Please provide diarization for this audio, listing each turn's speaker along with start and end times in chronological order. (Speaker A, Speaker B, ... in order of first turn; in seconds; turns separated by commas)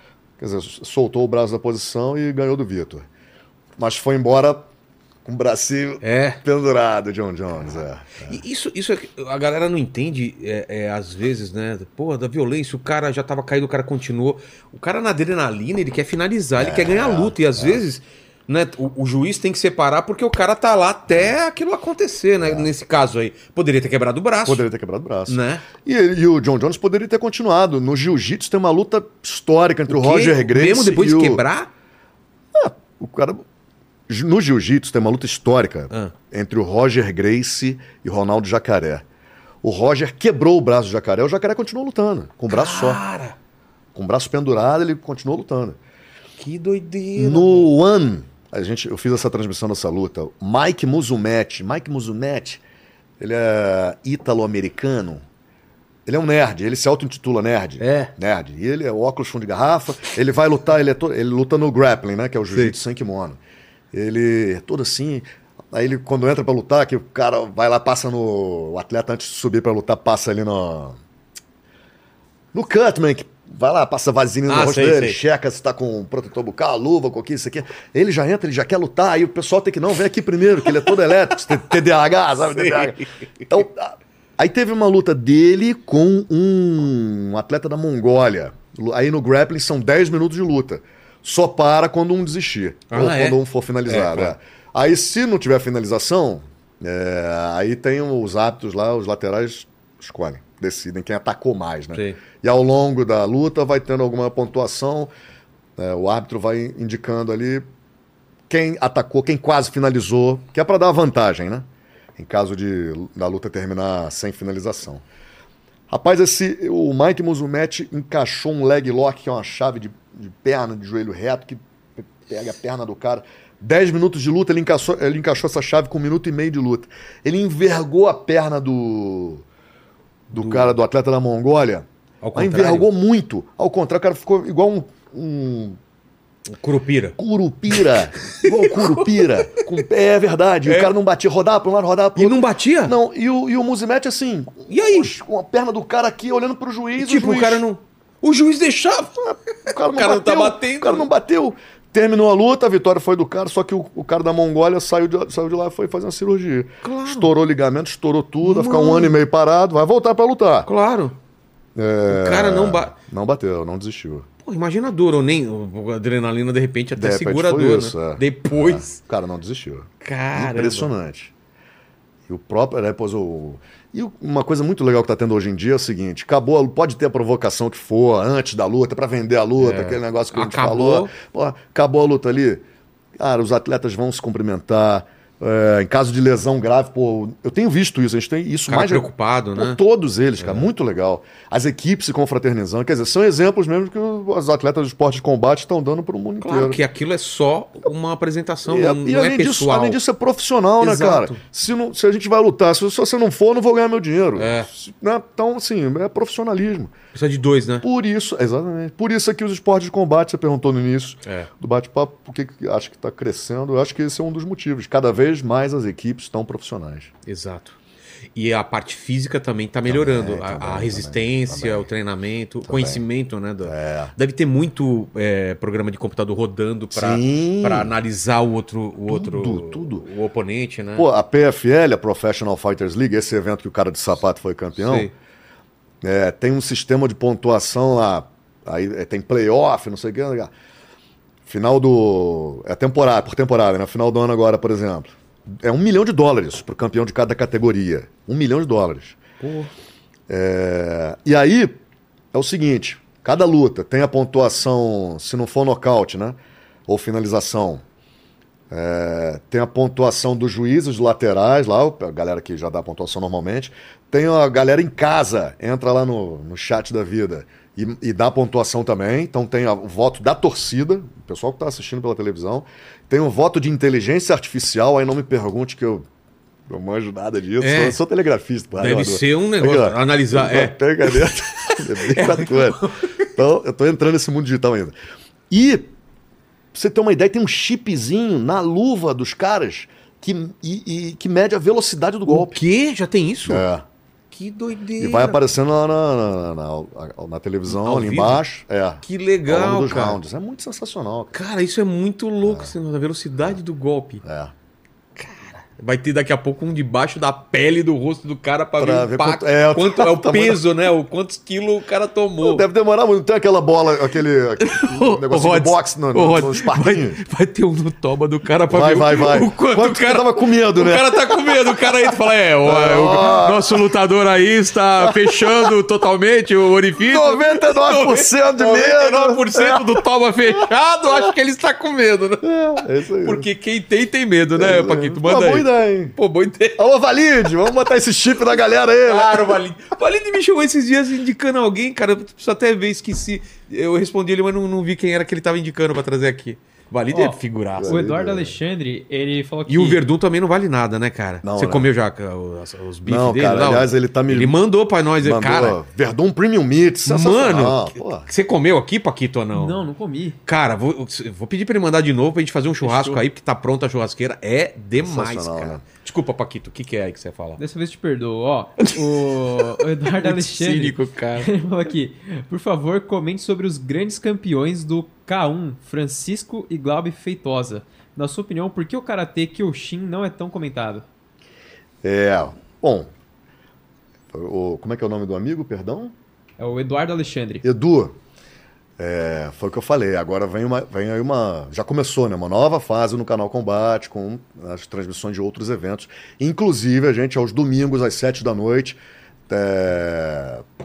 Speaker A: 0.4-3.1, Speaker A: 3.8-4.7, Speaker A: 5.2-8.4, Speaker B: 6.0-6.4, Speaker B: 8.2-24.6, Speaker A: 16.6-17.8, Speaker A: 21.1-21.4, Speaker A: 22.4-22.7, Speaker A: 24.4-31.4, Speaker B: 25.3-25.6, Speaker B: 29.9-31.7, Speaker A: 32.5-33.4, Speaker A: 34.1-39.0, Speaker A: 39.6-43.0, Speaker B: 42.5-43.4, Speaker A: 43.9-45.8, Speaker B: 46.4-47.7, Speaker A: 47.1-52.6, Speaker A: 53.2-55.2, Speaker A: 56.0-63.4, Speaker B: 57.8-58.1, Speaker A: 63.9-71.0, Speaker A: 72.5-105.1, Speaker B: 74.5-75.2, Speaker B: 82.6-82.9, Speaker B: 92.9-94.3, Speaker B: 101.9-102.2, Speaker A: 105.8-107.7, Speaker A: 108.5-115.0, Speaker A: 115.9-129.4, Speaker B: 130.3-130.8, Speaker A: 130.3-135.8, Speaker B: 132.2-132.9, Speaker B: 136.5-137.2, Speaker A: 137.2-147.6, Speaker B: 137.7-139.7, Speaker B: 140.7-140.9, Speaker B: 142.2-142.9, Speaker B: 144.7-145.1, Speaker B: 147.0-151.1, Speaker A: 149.7-160.7, Speaker B: 156.8-157.3, Speaker B: 158.4-159.2, Speaker B: 160.7-161.2, Speaker A: 161.8-164.3, Speaker B: 162.1-162.9, Speaker B: 164.4-169.0, Speaker A: 166.9-171.3, Speaker B: 170.0-170.9, Speaker A: 172.3-182.6, Speaker B: 179.6-181.1, Speaker A: 183.2-196.8, Speaker B: 188.7-189.8, Speaker B: 190.4-190.7, Speaker B: 196.4-200.0, Speaker A: 198.7-206.9, Speaker B: 200.8-201.4, Speaker B: 204.3-204.7, Speaker B: 207.1-207.8, Speaker A: 207.8-217.1, Speaker B: 211.2-211.5, Speaker B: 217.2-217.8, Speaker B: 218.3-231.1, Speaker A: 219.8-221.9, Speaker A: 222.7-223.0, Speaker A: 223.6-224.1, Speaker A: 226.9-227.9, Speaker A: 229.1-230.0, Speaker A: 230.9-235.1, Speaker B: 234.8-235.1, Speaker A: 236.0-240.5, Speaker A: 241.4-249.2, Speaker B: 249.4-249.7, Speaker A: 250.3-251.8, Speaker A: 252.3-257.8, Speaker A: 258.7-276.1, Speaker A: 276.7-282.8, Speaker B: 277.6-278.0, Speaker B: 278.8-283.2, Speaker A: 283.3-284.9, Speaker A: 285.5-285.9, Speaker A: 286.7-292.6, Speaker B: 292.3-293.6, Speaker A: 293.4-293.9, Speaker B: 294.3-295.5, Speaker A: 295.0-301.4, Speaker B: 297.7-298.4, Speaker B: 299.0-300.2, Speaker B: 301.3-304.2, Speaker A: 302.4-302.7, Speaker A: 304.2-304.5, Speaker B: 305.1-312.6, Speaker A: 308.8-310.6, Speaker A: 312.4-317.2, Speaker B: 314.6-332.5, Speaker A: 318.7-323.8, Speaker A: 325.0-325.7, Speaker A: 326.9-330.0, Speaker A: 330.6-331.3, Speaker A: 332.4-333.5, Speaker B: 333.2-336.8, Speaker A: 334.6-336.2, Speaker A: 336.8-339.6, Speaker B: 339.0-348.0, Speaker C: 347.1-350.0, Speaker A: 347.8-348.6, Speaker B: 349.7-355.8, Speaker A: 351.4-351.9, Speaker A: 353.1-354.6, Speaker A: 355.2-358.3, Speaker B: 357.0-359.8, Speaker C: 359.5-360.4, Speaker B: 360.4-367.6, Speaker C: 362.8-363.2, Speaker A: 365.0-365.8, Speaker C: 367.6-381.0, Speaker B: 368.8-371.5, Speaker A: 382.0-383.1, Speaker A: 384.3-386.1, Speaker C: 386.6-387.6, Speaker A: 387.6-388.1, Speaker A: 389.0-400.6